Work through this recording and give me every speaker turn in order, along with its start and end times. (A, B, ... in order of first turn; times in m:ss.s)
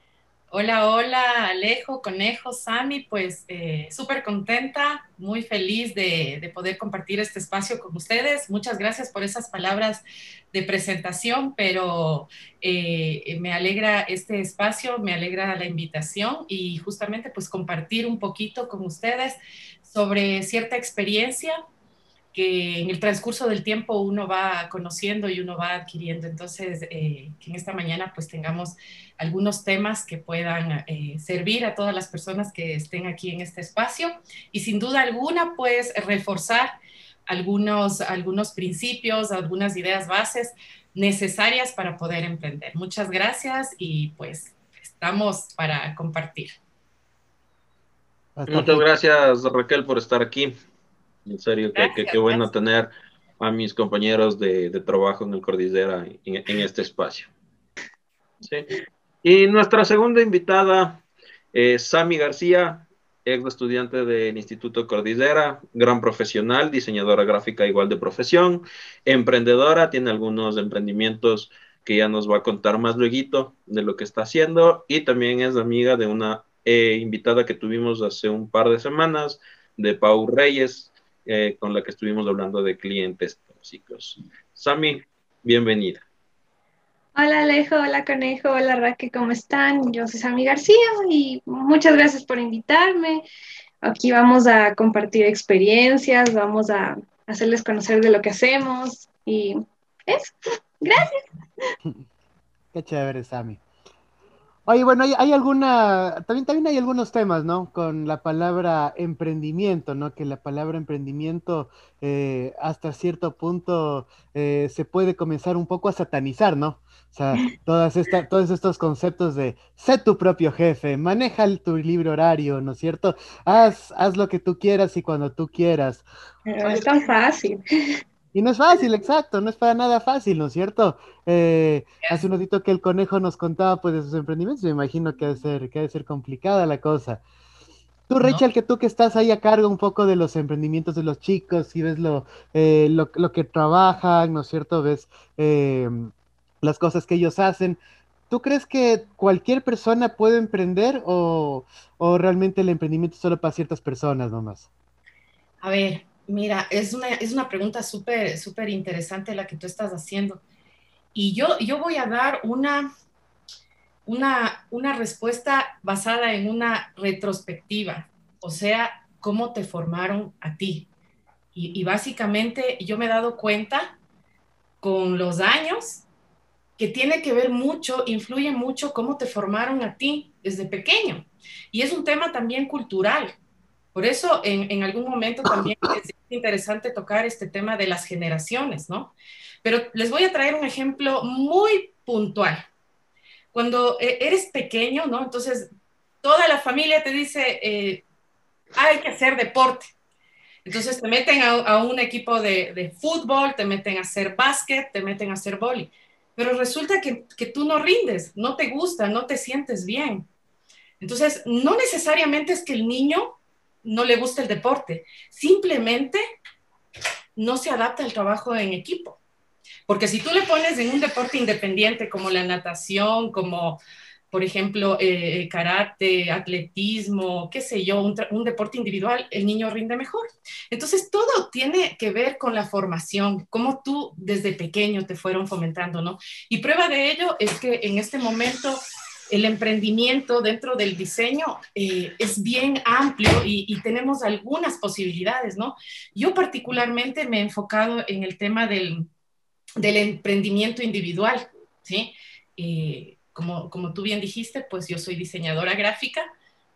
0:00.5-0:21.6 A
0:22.3-0:36.7 A
0:37.3-0:46.6 A
0:48.4-0:48.8 B
0:48.5-0:50.5 C
0:51.2-0:57.3 C
0:51.7-0:52.5 A
0:58.4-0:58.7 C
0:59.2-1:01.0 C
1:01.5-1:26.0 C
1:27.1-1:33.2 D
1:33.8-1:41.7 D
1:42.7-1:43.6 B
1:44.7-2:06.0 B
2:06.5-2:08.0 D
2:08.3-2:17.2 B
2:18.1-2:26.1 B
2:26.6-2:34.7 B
2:35.6-2:40.4 A
2:41.1-2:42.9 A
2:44.0-2:50.9 A
2:51.5-2:54.0 A
2:54.8-2:56.0 A
2:56.8-3:03.3 A
3:03.9-3:12.7 A
3:13.5-3:15.7 A
3:16.2-3:18.0 A
3:18.8-3:19.9 A
3:20.6-3:30.3 A
3:31.0-3:36.2 A
3:37.4-3:39.2 A
3:39.9-4:09.1 A
4:09.8-4:16.2 A